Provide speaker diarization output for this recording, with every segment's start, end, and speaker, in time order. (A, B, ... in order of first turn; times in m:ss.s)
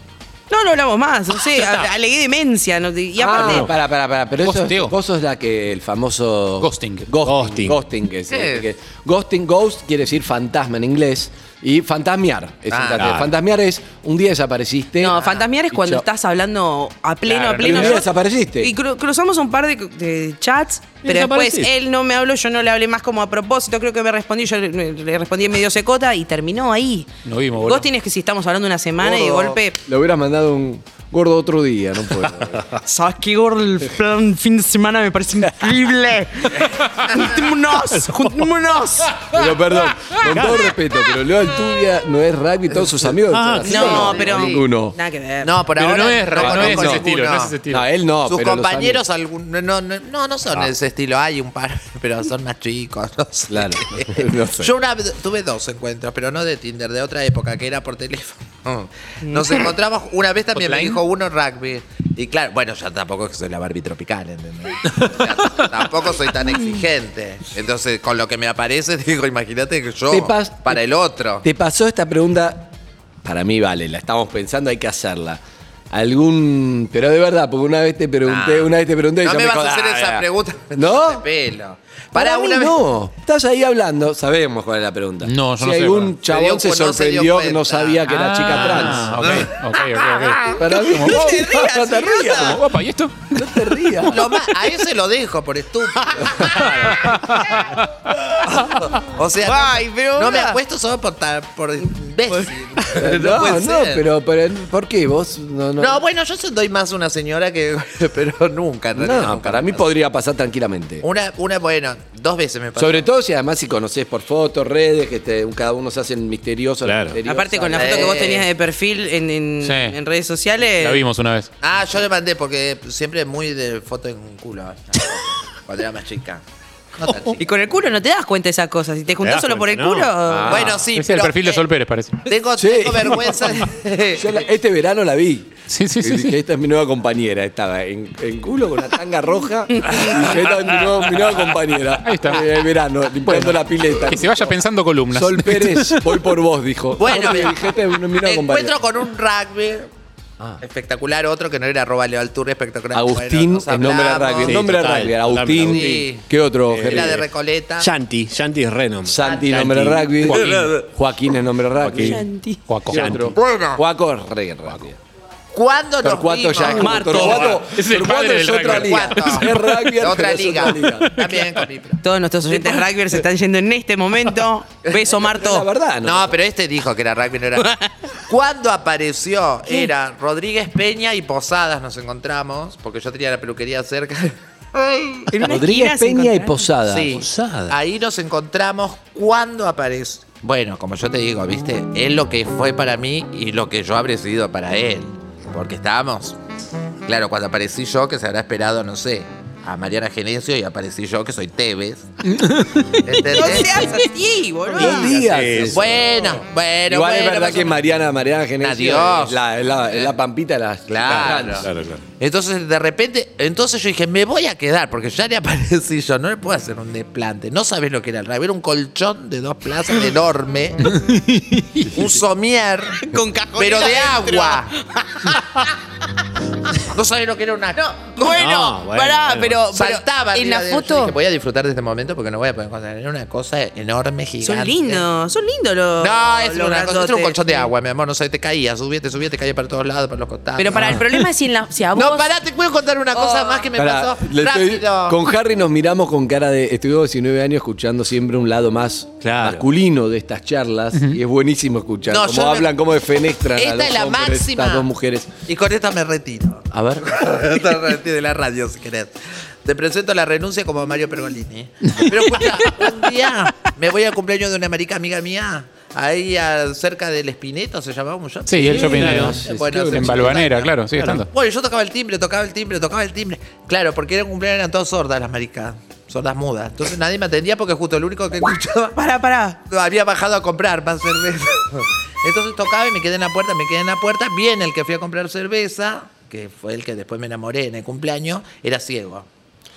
0:00.5-0:03.7 A
0:03.2-0:16.0 B
0:03.4-0:03.7 C
0:04.4-0:04.9 D
0:06.6-0:07.1 D
0:07.2-0:07.8 C
0:08.3-0:08.6 E
0:12.7-0:13.1 E
0:13.0-0:13.3 C
0:15.0-0:27.1 A
0:15.2-0:15.5 E
0:17.3-0:18.0 D
0:17.6-0:18.7 B
0:21.0-0:21.7 C
0:27.2-0:27.9 D
0:27.6-0:29.8 A
0:29.0-0:29.6 E
0:29.9-0:32.6 B
0:32.8-0:39.2 A
0:38.0-0:38.3 C
0:39.3-0:45.0 B
0:40.2-0:40.7 C
0:43.3-0:43.8 C
0:43.6-0:44.7 E
0:43.6-0:45.6 A
0:45.4-0:47.6 E
0:45.8-0:47.9 D
0:46.4-0:47.1 B
0:47.7-0:49.0 B
0:48.2-1:11.4 E
0:53.5-0:54.7 B
0:59.2-0:59.5 A
1:00.6-1:01.0 D
1:10.1-1:10.8 B
1:11.4-1:12.7 B
1:13.2-1:21.2 B
1:18.2-1:22.8 E
1:22.1-1:29.5 B
1:25.2-1:26.1 D
1:26.2-1:28.0 E
1:28.1-1:31.3 D
1:30.5-1:32.6 A
1:30.5-1:32.6 B
1:32.2-1:33.7 D
1:33.3-1:34.4 B
1:34.0-1:37.0 E
1:36.2-1:37.0 B
1:37.0-1:37.9 D
1:38.6-1:44.0 E
1:39.4-1:40.6 A
1:42.3-1:42.5 A
1:42.9-1:46.0 B
1:45.8-1:49.8 E
1:49.0-1:51.1 B
1:51.0-1:53.1 E
1:52.8-1:58.3 B
1:56.8-1:57.2 C
1:57.2-2:01.0 A
1:57.7-1:58.5 E
1:59.6-2:00.0 D
2:00.8-2:01.5 D
2:01.6-2:06.4 E
2:07.0-2:07.4 E
2:07.4-2:10.7 A
2:09.2-2:10.8 C
2:10.3-2:10.9 B
2:10.5-2:11.6 E
2:10.9-2:12.2 D
2:12.2-2:14.4 E
2:12.6-2:24.6 B
2:15.7-2:16.4 D
2:19.7-2:20.1 A
2:22.0-2:22.6 D
2:23.3-2:26.2 D
2:25.1-2:28.8 B
2:27.0-2:29.9 E
2:30.6-2:34.8 E
2:32.9-2:37.2 B
2:34.4-2:36.0 C
2:35.6-2:36.2 E
2:36.7-2:37.2 C
2:36.8-2:37.9 E
2:37.8-2:40.0 C
2:39.0-2:42.2 B
2:39.2-2:39.6 E
2:39.5-2:40.8 D
2:40.2-2:40.8 E
2:41.8-2:42.2 C
2:42.0-2:42.6 A
2:42.7-2:43.4 D
2:42.9-2:45.0 B
2:43.4-2:43.8 E
2:45.5-2:47.4 E
2:46.0-2:51.4 B
2:46.6-2:47.6 A
2:47.1-2:49.7 D
2:48.7-2:52.0 E
2:52.0-2:55.7 A
2:54.9-2:56.4 B
2:56.0-2:57.7 E
2:57.6-2:57.9 A
2:58.3-3:05.2 E
3:05.3-3:06.7 A
3:05.4-3:07.4 B
3:06.9-3:16.4 E
3:07.1-3:07.7 C
3:17.1-3:22.1 E
3:22.4-3:22.9 D
3:23.0-3:24.0 E
3:23.2-3:25.2 A
3:24.8-3:26.3 B
3:24.8-3:25.8 C
3:25.6-3:27.8 E
3:26.9-3:31.7 B
3:28.6-3:30.1 E
3:30.9-3:41.0 E
3:31.0-3:32.0 C
3:40.9-3:42.1 D
3:41.9-3:43.0 E
3:43.0-3:45.4 A
3:43.6-3:44.7 E
3:46.8-3:47.8 E
3:47.8-3:51.2 A
3:48.3-3:49.6 C
3:49.7-3:55.0 E
3:54.4-3:57.7 A
3:56.0-4:01.1 E
4:00.6-4:02.3 A
4:00.8-4:01.0 B
4:02.0-4:05.2 E
4:03.2-4:03.7 A
4:03.7-4:15.3 B
4:09.2-4:09.7 C
4:10.9-4:11.2 D
4:12.1-4:12.7 E
4:13.5-4:14.9 E
4:15.5-4:19.1 E
4:16.7-4:17.2 B
4:19.6-4:39.0 E
4:28.5-4:29.4 D
4:28.6-4:30.4 B
4:28.7-4:29.4 C
4:29.9-4:31.3 D
4:38.9-4:39.6 A
4:39.7-4:49.3 E